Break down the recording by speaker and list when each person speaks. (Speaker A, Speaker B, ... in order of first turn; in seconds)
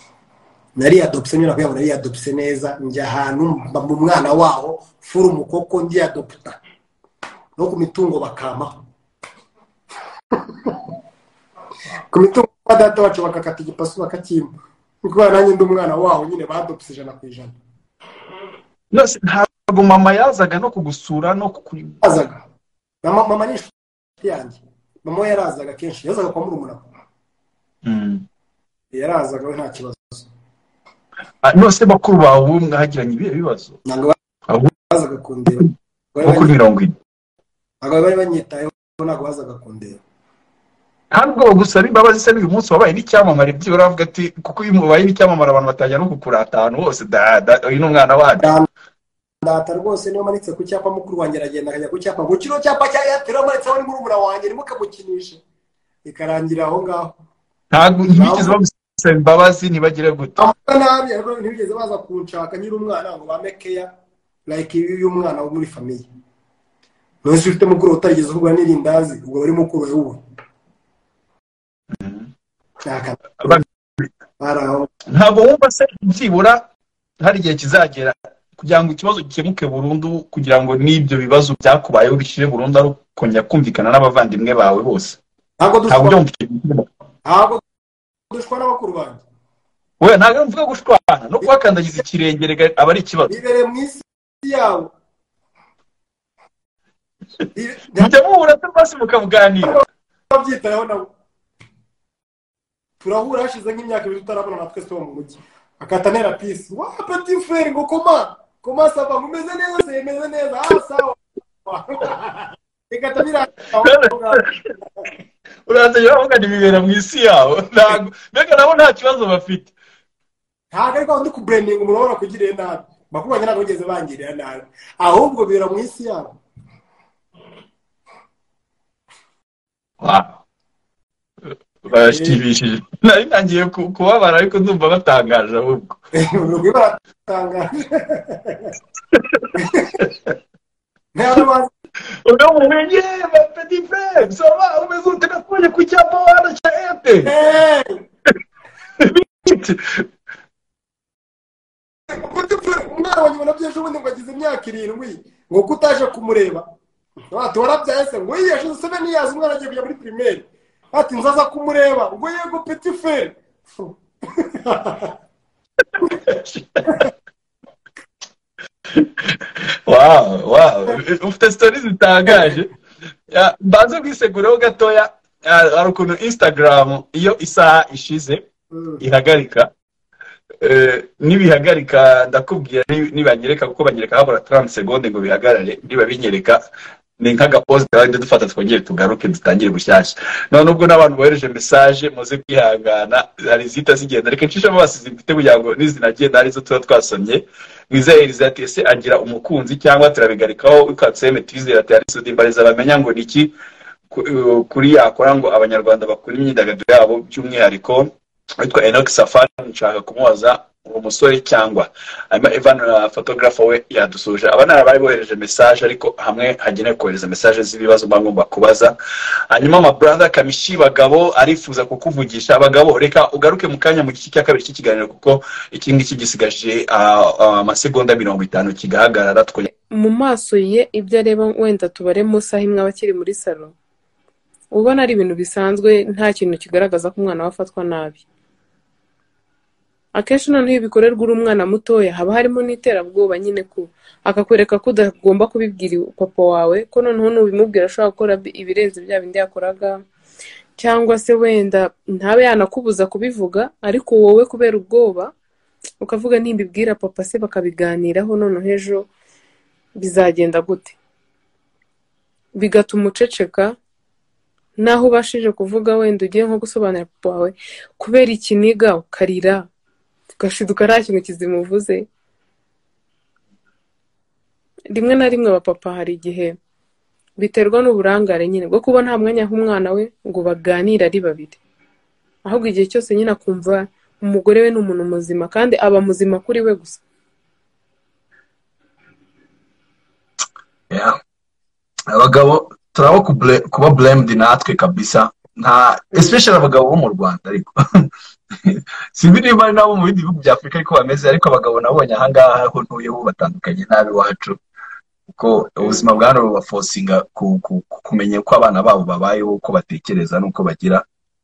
Speaker A: 0.8-6.6, 7.6-8.7, 10.3-10.8, 12.1-14.5, 15.0-17.5, 22.0-22.4, 23.0-26.8, 28.9-30.3, 33.8-34.1, 34.9-36.5, 37.8-40.0, 48.4-48.7, 49.4-55.4, 56.0-57.1, 58.1-58.6, 60.4-63.9, 64.5-66.0, 67.2-70.2, 72.8-73.6, 74.4-74.9, 85.6-86.2, 87.2-87.6, 88.3-89.2, 93.3-94.9, 97.5-98.1, 99.6-101.1, 103.0-114.4, 120.7-126.4, 132.1-132.4, 136.2-138.7, 139.6-139.9, 141.1-141.7, 147.2-148.0, 152.1-156.7, 157.3-165.1, 172.3-172.6, 178.7-179.0
Speaker B: 18.9-22.0, 27.8-28.2, 31.4-33.8, 36.2-37.0, 41.1-48.5, 57.7-60.4, 71.9-72.3, 73.4-74.0, 75.1-76.7, 77.2-85.2, 85.9-86.9, 90.0-93.4, 98.0-99.8, 113.8-114.5, 115.7-119.7, 130.0-130.4, 131.8-136.0, 139.1-140.3, 142.2-147.3, 149.0-150.1, 166.0-167.1, 169.0-169.3, 169.9-172.7, 173.3-178.4, 179.0-179.7, 180.6-186.6, 187.2-203.5, 204.1-218.9, 219.5-229.7, 290.9-291.2, 292.1-298.1, 298.6-304.6, 305.3-311.0
Speaker C: 229.9-233.7, 234.7-238.2, 240.1-250.0, 250.8-255.3, 256.0-259.1, 260.0-261.0, 262.6-263.8, 264.8-269.7, 270.4-272.1, 274.9-276.6, 277.4-281.6, 282.4-287.0